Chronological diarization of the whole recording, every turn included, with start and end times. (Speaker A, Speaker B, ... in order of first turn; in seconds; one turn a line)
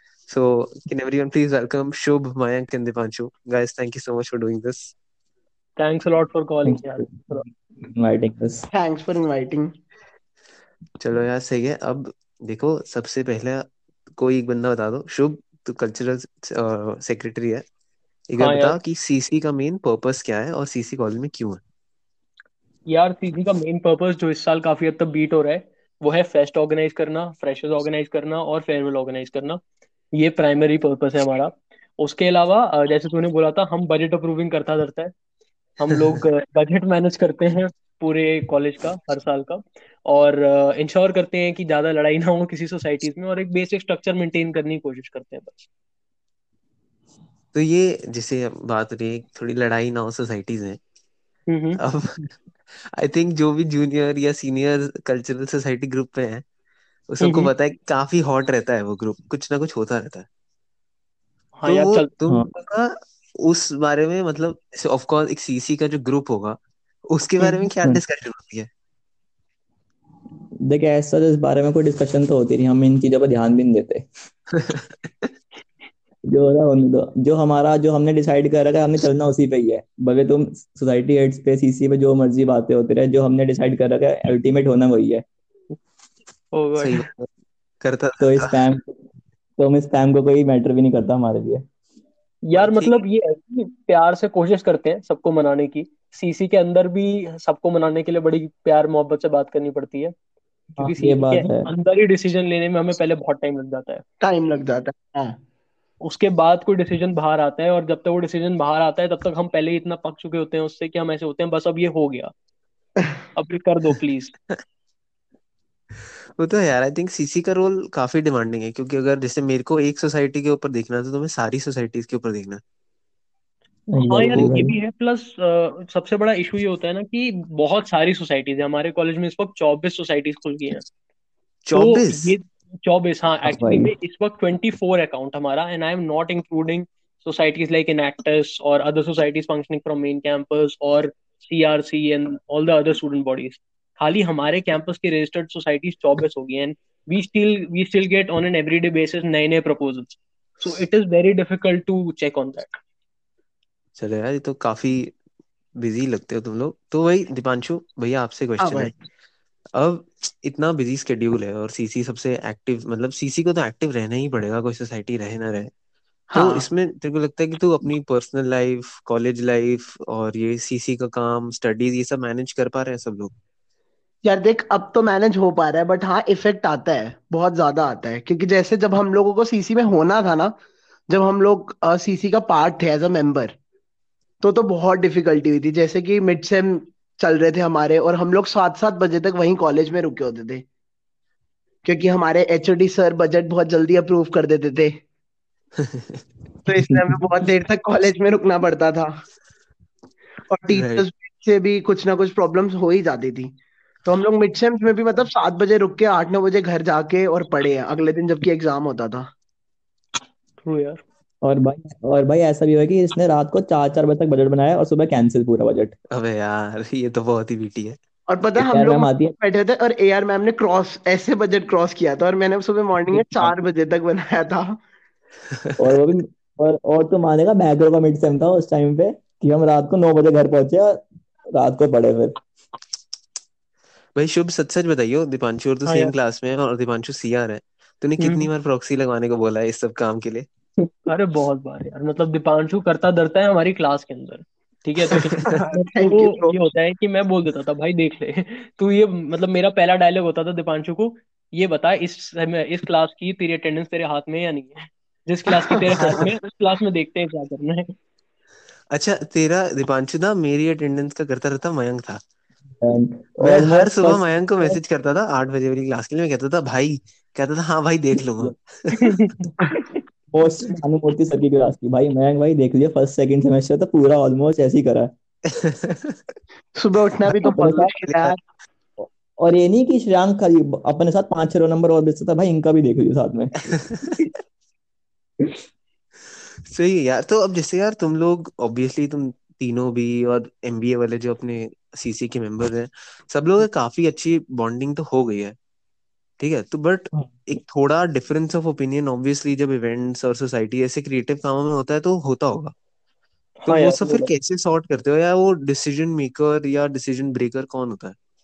Speaker A: 0.3-4.9
Speaker B: 5.8-7.4
Speaker C: 6.7-8.7
Speaker D: 8.7-9.7
Speaker A: 11.0-17.6
Speaker A: 18.3-21.6
Speaker B: 18.4-18.8
Speaker B: 22.9-29.6
Speaker B: 30.1-35.1
Speaker B: 35.8-45.6
Speaker A: 47.5-50.8
Speaker B: 51.5-51.8
Speaker A: 51.8-56.5
Speaker A: 57.1-60.3
Speaker B: 57.2-57.5
Speaker B: 61.6-62.1
Speaker A: 61.6-68.7
Speaker C: 70.6-74.1
Speaker A: 74.6-75.3
Speaker C: 76.3-85.2
Speaker B: 86.5-87.0
Speaker A: 86.8-87.3
Speaker A: 87.8-88.6
Speaker C: 88.2-89.0
Speaker C: 89.6-91.6
Speaker B: 92.5-100.1
Speaker A: 92.5-92.9
Speaker C: 100.8-101.7
Speaker B: 100.8-104.0
Speaker D: 104.2-105.4
Speaker B: 106.0-112.3
Speaker B: 113.3-114.3
Speaker A: 116.4-122.6
Speaker C: 123.9-124.7
Speaker B: 124.0-130.8
Speaker A: 131.7-132.3
Speaker B: 131.7-152.8
Speaker C: 133.4-133.9
Speaker A: 154.0-155.1
Speaker A: 155.8-158.9
Speaker D: 158.6-158.9
Speaker A: 159.7-165.7
Speaker D: 166.3-166.7
Speaker A: 166.3-173.3
Speaker D: 174.2-180.5
Speaker D: 181.1-183.6
Speaker D: 184.4-190.6
Speaker D: 191.8-194.9
Speaker A: 195.8-196.2
Speaker D: 196.7-199.1
Speaker C: 196.9-197.1
Speaker D: 200.5-203.5
Speaker A: 200.7-201.1
Speaker D: 204.0-209.3
Speaker B: 210.6-211.0
Speaker C: 211.4-215.9
Speaker A: 216.1-218.0
Speaker D: 218.3-224.8
Speaker C: 218.6-219.3
Speaker C: 223.1-223.5
Speaker C: 225.8-231.0
Speaker C: 231.5-232.4
Speaker A: 234.1-240.5
Speaker B: 235.8-236.1
Speaker B: 238.2-238.5
Speaker B: 241.1-257.9
Speaker D: 245.4-246.6
Speaker D: 255.7-256.2
Speaker A: 258.9-262.2
Speaker C: 262.8-264.8
Speaker A: 263.4-269.3
Speaker B: 269.0-269.5
Speaker C: 270.3-275.1
Speaker A: 275.5-276.2
Speaker D: 276.7-278.4
Speaker C: 277.4-277.9
Speaker C: 279.0-283.8
Speaker A: 286.6-295.6
Speaker A: 296.4-302.7
Speaker B: 303.6-304.3
Speaker A: 303.6-308.2